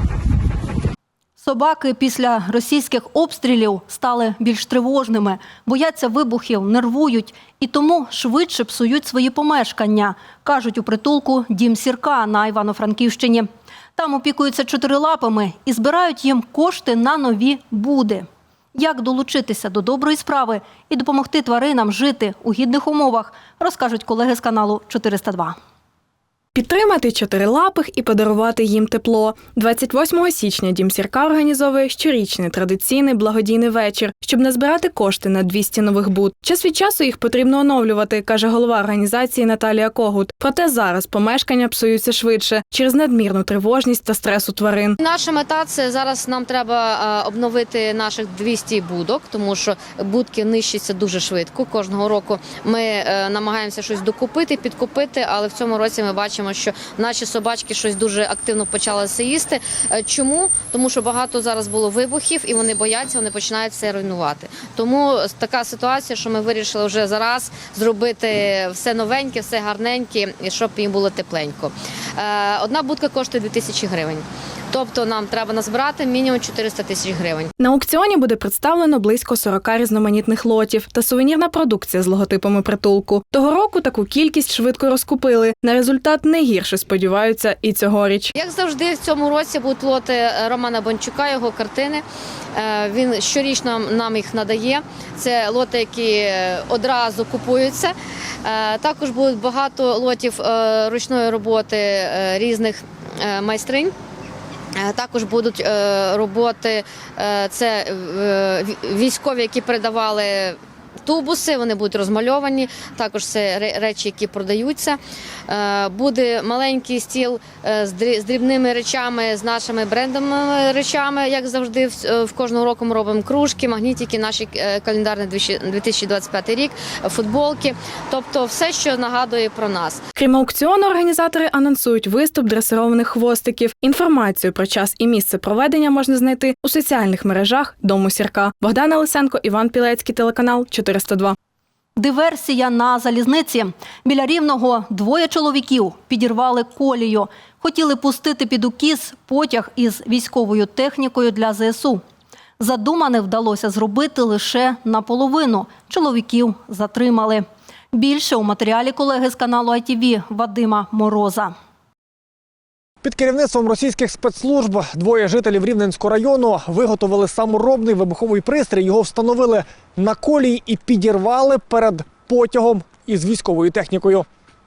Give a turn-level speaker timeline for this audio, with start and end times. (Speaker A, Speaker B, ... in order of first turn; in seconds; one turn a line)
Speaker A: 1.4-25.6
Speaker B: 26.5-44.9
Speaker C: 45.0-77.5
Speaker B: 77.6-88.3
Speaker C: 88.3-92.0
Speaker C: 92.5-97.9
Speaker C: 98.4-103.9
Speaker C: 104.8-115.0
Speaker C: 115.5-130.0
Speaker B: 130.2-141.3
Speaker A: 141.9-152.0
Speaker A: 152.6-161.5
Speaker D: 163.0-174.2